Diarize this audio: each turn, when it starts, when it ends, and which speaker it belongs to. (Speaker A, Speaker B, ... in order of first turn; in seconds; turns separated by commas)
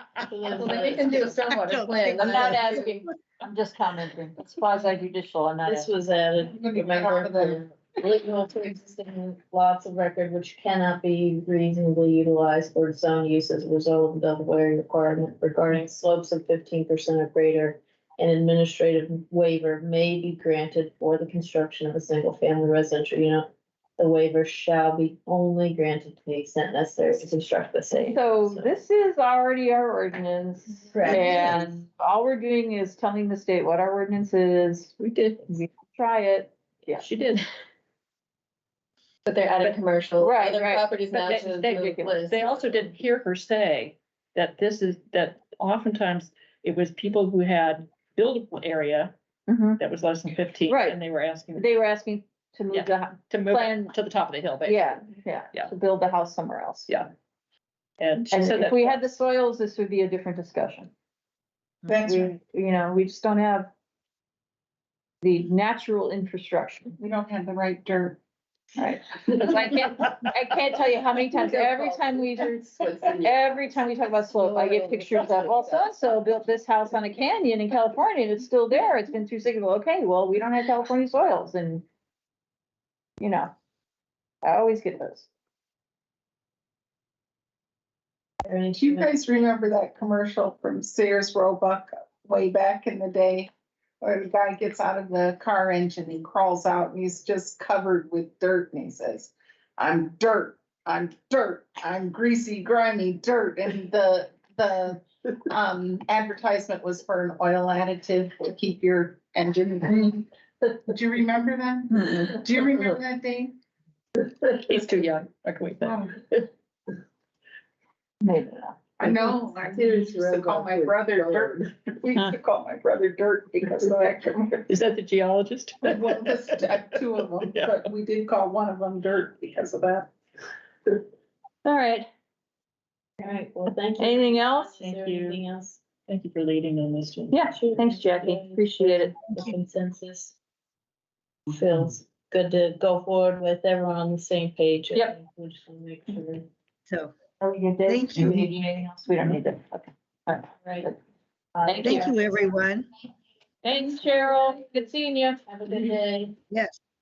Speaker A: 0.3-1.4, Speaker B: 0.5-2.8, Speaker C: 1.5-3.1, Speaker D: 2.0-5.9, Speaker A: 5.7-28.8, Speaker E: 6.4-7.6, Speaker D: 27.9-35.0, Speaker A: 30.9-31.7, Speaker F: 35.0-35.5, Speaker D: 35.5-37.0, Speaker F: 37.0-37.5, Speaker B: 39.3-42.4, Speaker D: 40.2-40.9, Speaker F: 41.1-49.1, Speaker D: 41.8-42.2, Speaker D: 49.5-49.8, Speaker F: 49.8-51.6, Speaker D: 50.7-51.0, Speaker D: 51.6-53.9, Speaker F: 52.7-55.7, Speaker D: 54.6-56.9, Speaker F: 58.0-59.0, Speaker D: 58.3-60.9, Speaker E: 61.9-62.2, Speaker D: 62.0-63.7, Speaker D: 65.2-67.0, Speaker E: 67.0-68.2, Speaker D: 68.8-72.7, Speaker B: 71.3-73.7, Speaker D: 73.2-81.8, Speaker B: 74.3-75.9, Speaker D: 83.2-83.5, Speaker D: 84.4-85.3, Speaker A: 88.4-89.2, Speaker E: 88.7-93.5, Speaker E: 94.0-110.3, Speaker E: 110.8-113.6, Speaker F: 114.4-116.5, Speaker E: 115.8-116.2, Speaker D: 118.2-118.8, Speaker E: 119.0-124.6, Speaker A: 119.2-121.5, Speaker F: 124.7-127.9, Speaker E: 125.8-130.1, Speaker D: 131.7-132.1, Speaker A: 133.2-135.8, Speaker D: 134.0-134.8, Speaker F: 134.8-135.4, Speaker F: 136.1-137.4, Speaker D: 137.3-139.2, Speaker A: 137.4-140.4, Speaker A: 141.5-146.5, Speaker D: 147.4-151.0, Speaker C: 147.9-148.5, Speaker A: 151.6-152.1, Speaker D: 151.7-152.1, Speaker C: 151.8-152.9, Speaker D: 153.6-155.5, Speaker A: 155.5-156.3, Speaker C: 156.5-156.8